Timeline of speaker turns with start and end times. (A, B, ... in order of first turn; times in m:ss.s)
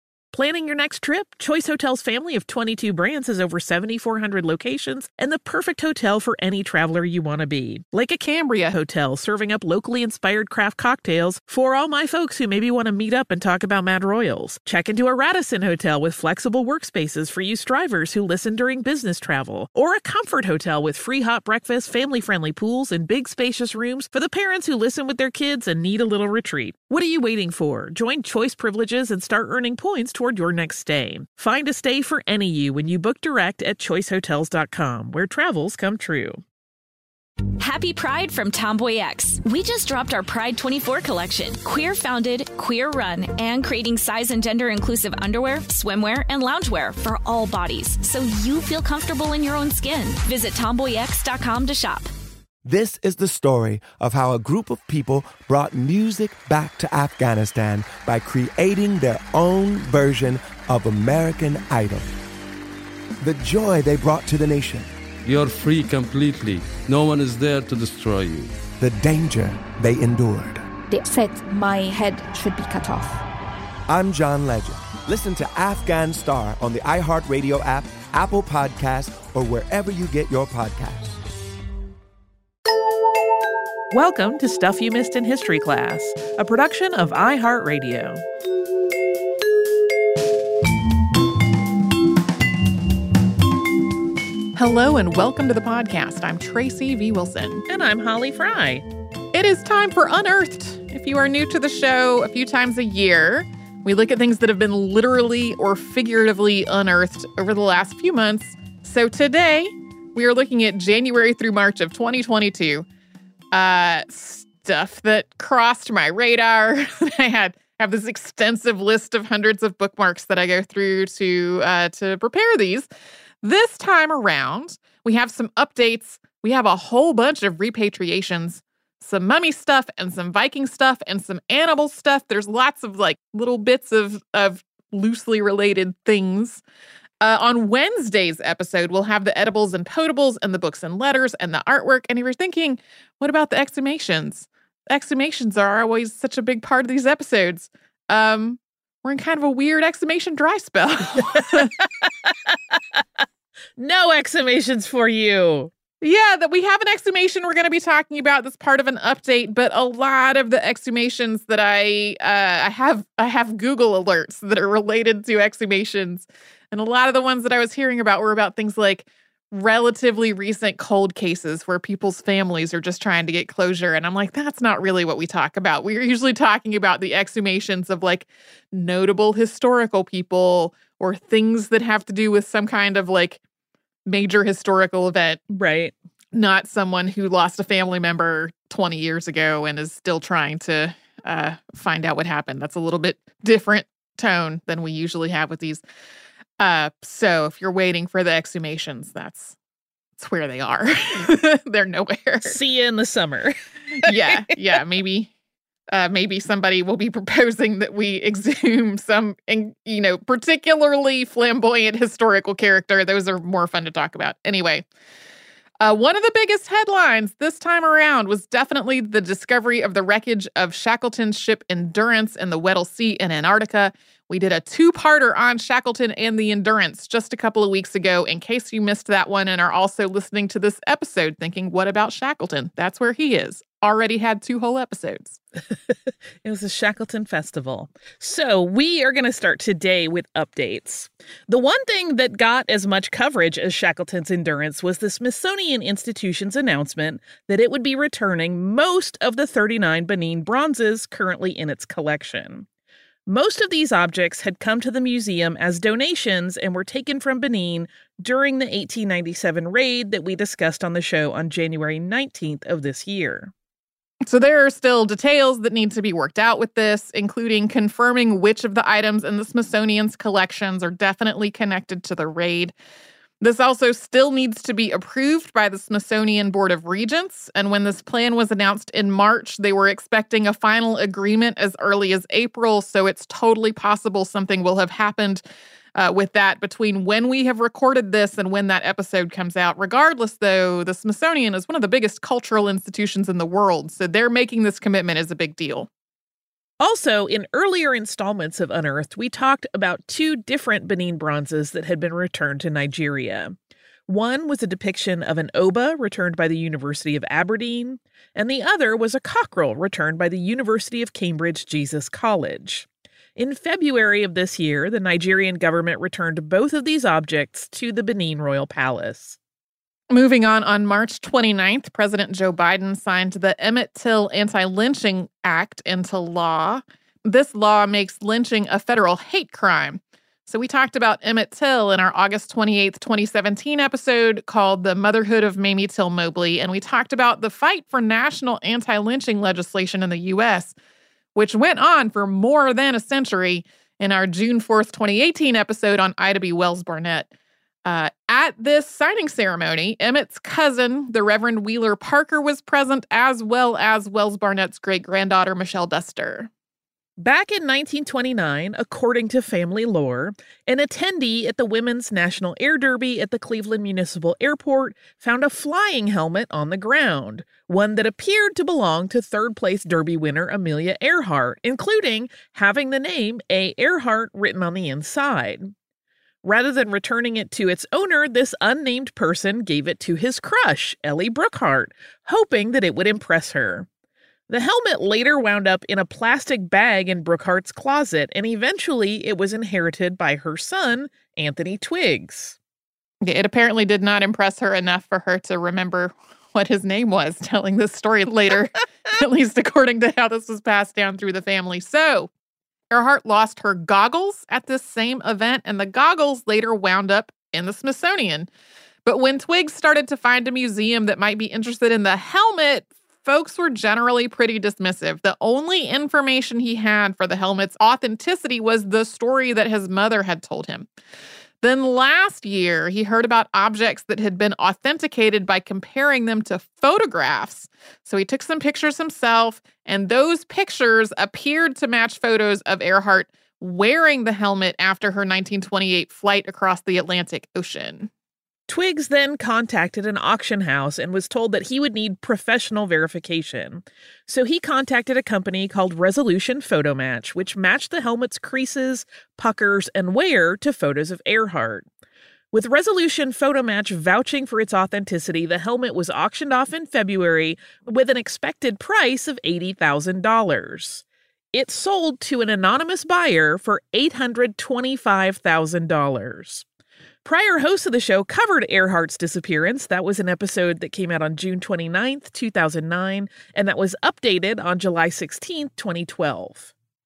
0:00.3-0:36.4 A
0:37.6-0:52.1 B
0:52.6-1:02.1 C
1:03.2-1:04.9 C
1:05.2-1:08.5 D
1:08.8-1:10.7 C
1:10.9-1:13.2 E
1:13.9-1:21.2 C
1:23.9-1:28.2 A
1:34.6-1:37.6 F
1:37.7-1:38.9 A
1:39.3-1:52.9 F
1:53.5-2:02.9 F
2:03.4-2:16.6 F
2:17.2-2:31.7 F
2:32.3-2:33.0 A
2:33.8-2:35.7 A
2:36.0-3:03.4 F
3:04.1-3:05.4 F
3:05.5-3:05.9 A
3:06.3-3:15.8 F
3:16.6-3:19.6 F
3:20.2-3:22.6 F
3:22.4-3:24.4 A
3:24.0-3:25.3 F
3:25.9-3:34.8 F
3:35.8-3:55.4 F
3:56.4-4:12.7 A
4:13.3-4:23.5 A
4:24.3-4:32.7 F
4:33.4-4:45.4 F
4:46.0-4:55.9 F
4:56.8-5:03.6 A
5:04.1-5:19.4 A
5:20.1-5:40.7 F
5:41.4-5:47.3 F
5:47.9-5:56.5 F
5:57.2-6:15.7 A
6:16.4-6:23.9 A
6:24.5-6:32.6 A
6:33.2-6:42.3 F
6:42.9-6:48.5 F
6:49.1-7:00.9 F
7:01.6-7:18.1 F
7:18.7-7:31.9 A
7:32.5-7:46.6 A
7:47.2-7:56.7 A